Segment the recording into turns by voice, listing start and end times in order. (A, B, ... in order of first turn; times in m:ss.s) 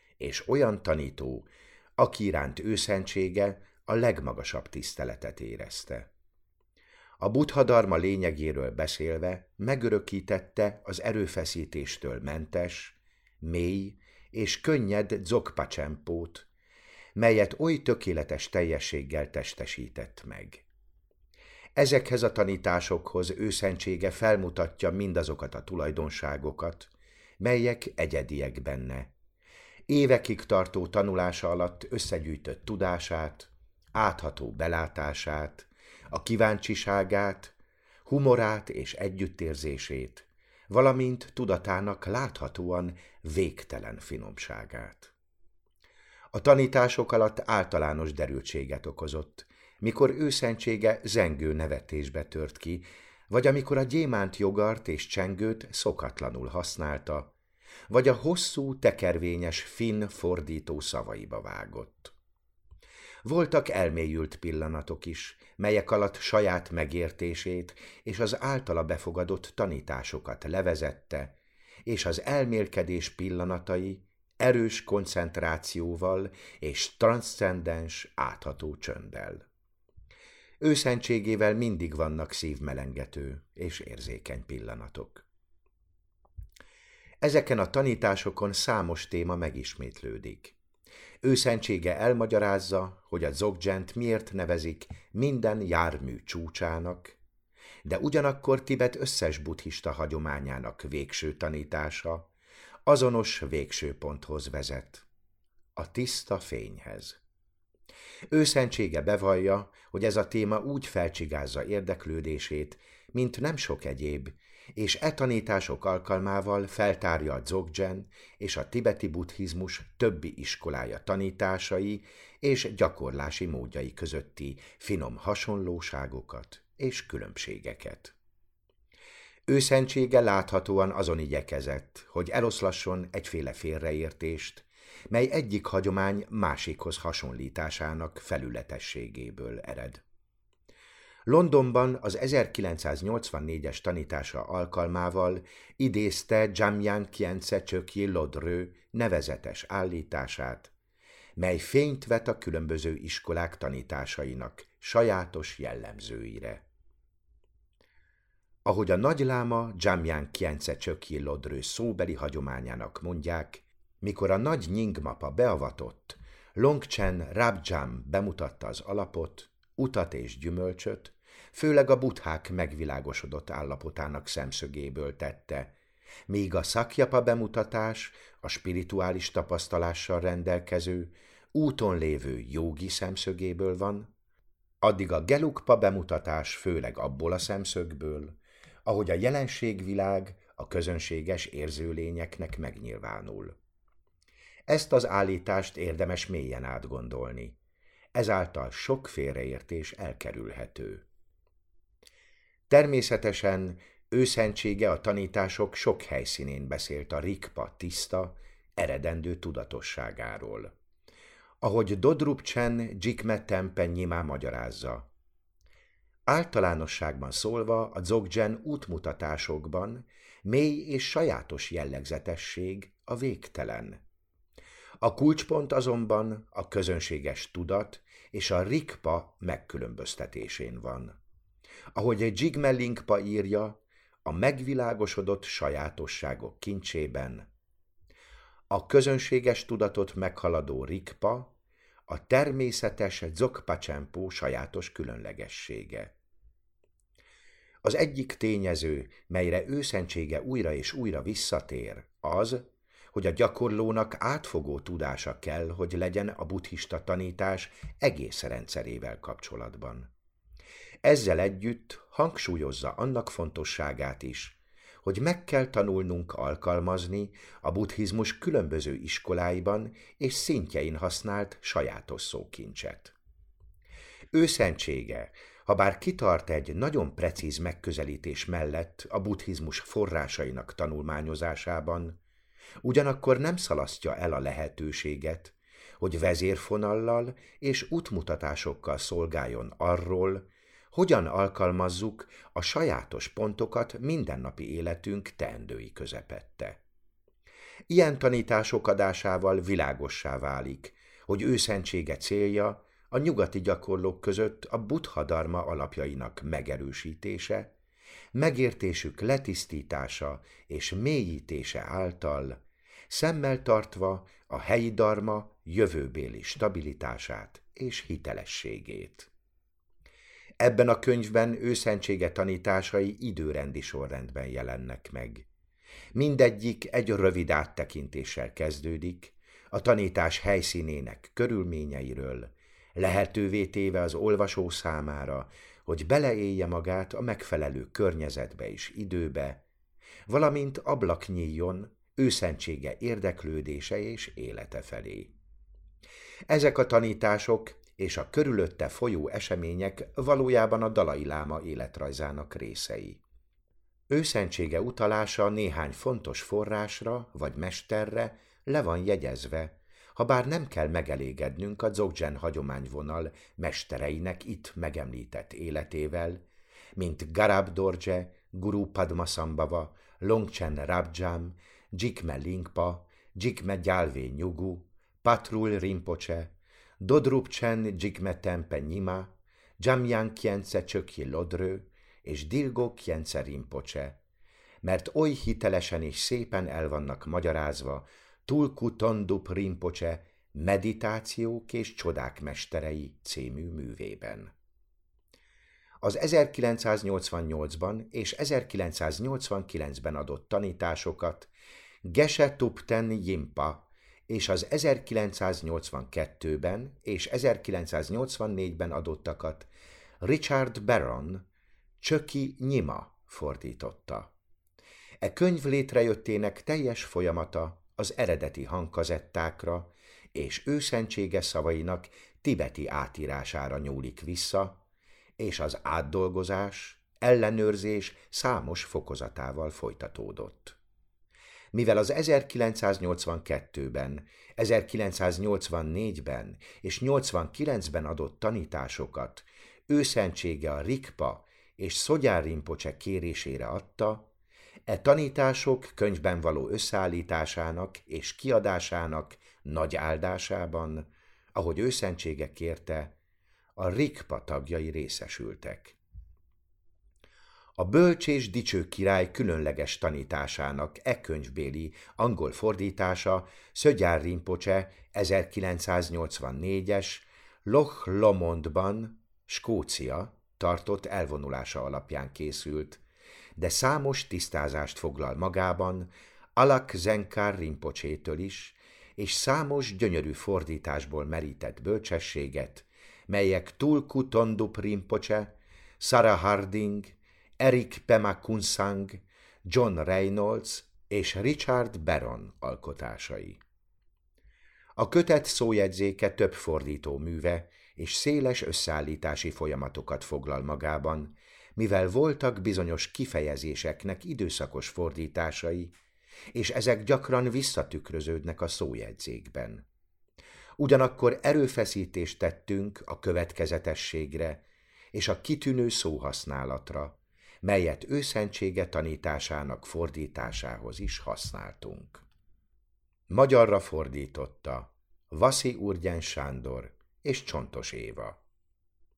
0:00.2-0:06.1 A
0:07.2-0:16.5 A
0:17.2-0:20.6 A
0:21.8-0:29.1 A
0:29.9-0:37.6 A
0:38.1-0:45.1 A
0:46.3-0:57.3 A
0:57.9-1:02.1 A
1:03.2-1:19.4 A
1:20.6-1:25.3 A
1:27.2-1:30.6 A
1:31.2-1:37.2 A
1:37.8-1:42.3 A
1:42.9-1:45.1 A
1:45.8-1:47.2 A
1:48.3-2:08.1 A
2:09.5-2:20.0 A
2:21.3-2:30.7 A
2:31.4-2:36.6 A
2:38.7-2:55.7 A
2:56.3-3:04.1 A
3:04.8-3:13.5 A
3:14.7-3:17.6 A
3:18.2-3:21.0 A
3:22.7-3:30.7 A
3:31.6-3:35.1 A
3:36.3-3:44.0 A
3:45.0-3:51.2 A
3:52.0-3:57.5 A
3:58.7-4:01.6 A
4:02.1-4:06.1 A
4:07.8-4:20.1 A
4:21.0-4:33.2 A
4:34.3-4:42.2 A
4:42.8-4:56.8 A
4:57.9-5:07.7 A
5:08.4-5:19.3 A
5:20.6-5:25.5 A
5:26.2-5:39.6 A
5:40.3-5:45.3 A
5:46.5-5:53.2 A
5:54.1-6:06.4 A
6:07.0-6:24.2 A
6:24.8-6:34.5 A
6:36.0-6:41.5 A
6:42.0-6:49.7 A
6:50.2-6:51.4 A
6:52.0-6:54.3 A
6:55.2-7:04.8 A
7:05.4-7:10.8 A
7:11.7-7:24.3 A
7:24.9-7:33.1 A
7:33.8-7:36.0 A
7:37.8-7:53.0 A
7:53.6-8:13.6 A
8:15.0-8:25.9 A
8:26.5-8:29.8 A
8:30.8-8:42.2 A
8:43.3-8:48.4 A